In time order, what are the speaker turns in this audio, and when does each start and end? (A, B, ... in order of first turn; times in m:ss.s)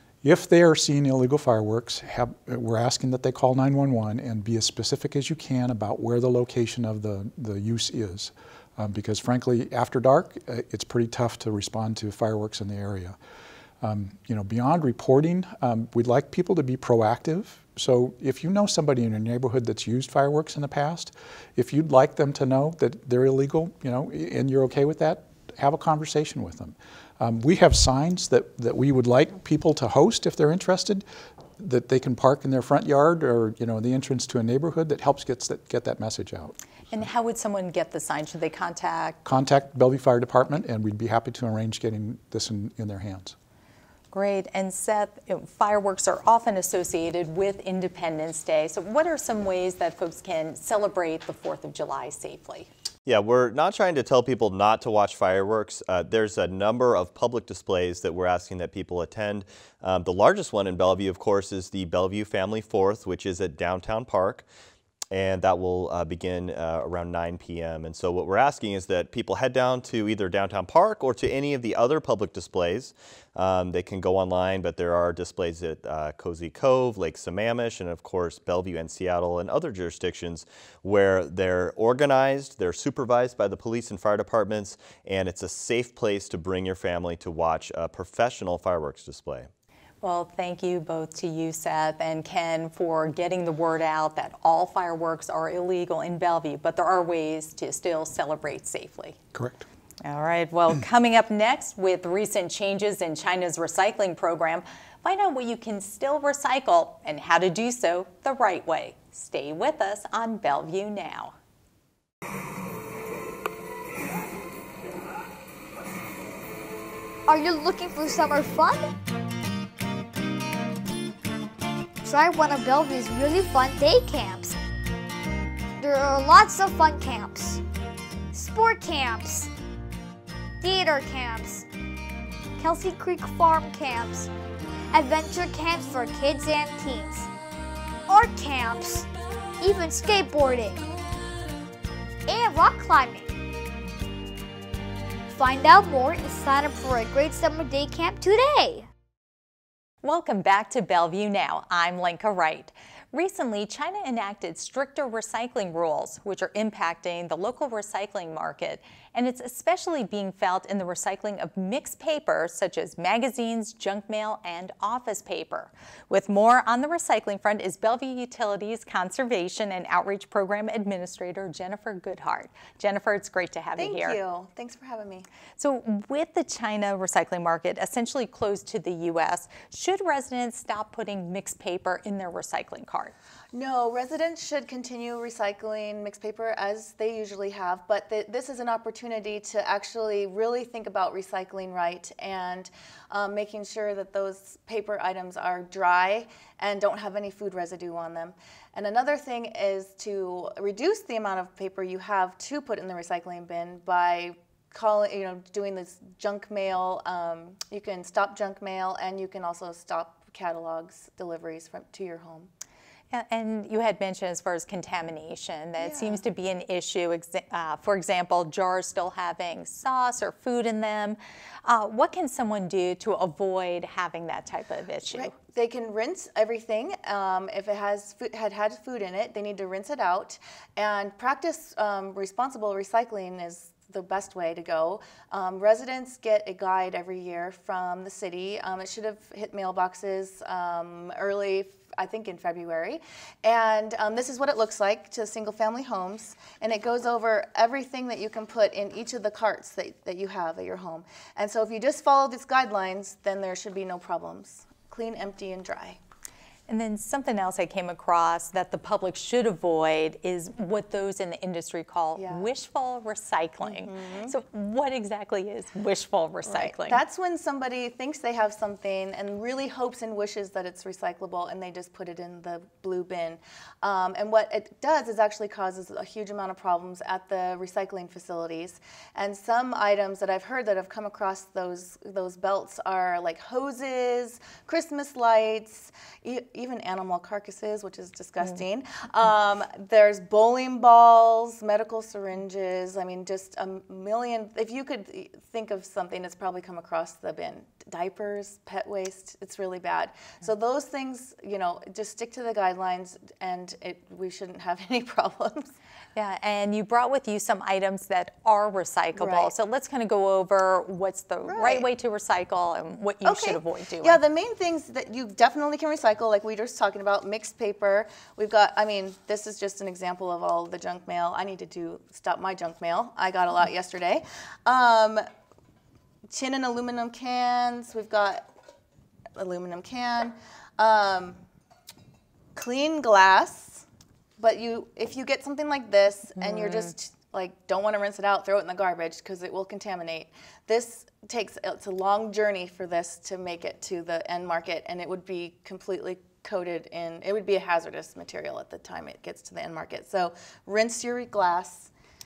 0:00.2-0:13.2 A
0:13.8-0:31.0 A
0:31.6-0:36.5 A
0:36.9-0:39.2 B
0:39.2-0:43.4 A
0:44.1-0:52.7 B
0:53.0-1:04.4 C
1:05.1-1:29.5 C
1:30.0-1:39.2 B
1:39.3-1:39.6 A
1:40.0-1:51.3 B
1:57.3-1:58.9 D
2:02.0-2:04.6 D
2:05.8-2:07.6 D
2:08.3-2:09.5 D
2:10.6-2:11.6 D
2:12.6-2:14.3 D
2:14.9-2:17.3 D
2:18.1-2:19.1 D
2:19.6-2:20.8 D
2:22.3-2:23.3 D
2:25.3-2:28.9 D
2:30.0-2:54.2 B
2:53.8-2:55.3 E
2:55.6-3:03.1 B
3:03.5-3:32.5 E
3:33.1-3:45.3 B
3:35.8-3:36.2 E
3:45.1-4:16.0 E
4:16.7-4:27.0 B
4:22.2-4:22.4 E
4:23.6-4:24.4 E
4:26.4-5:05.7 E
5:06.1-5:14.2 B
5:09.2-5:09.5 E
5:11.5-5:11.8 E
5:13.2-5:25.2 E
5:26.3-5:28.5 E
5:29.4-5:31.4 E
5:32.6-5:33.8 E
5:34.4-5:51.9 E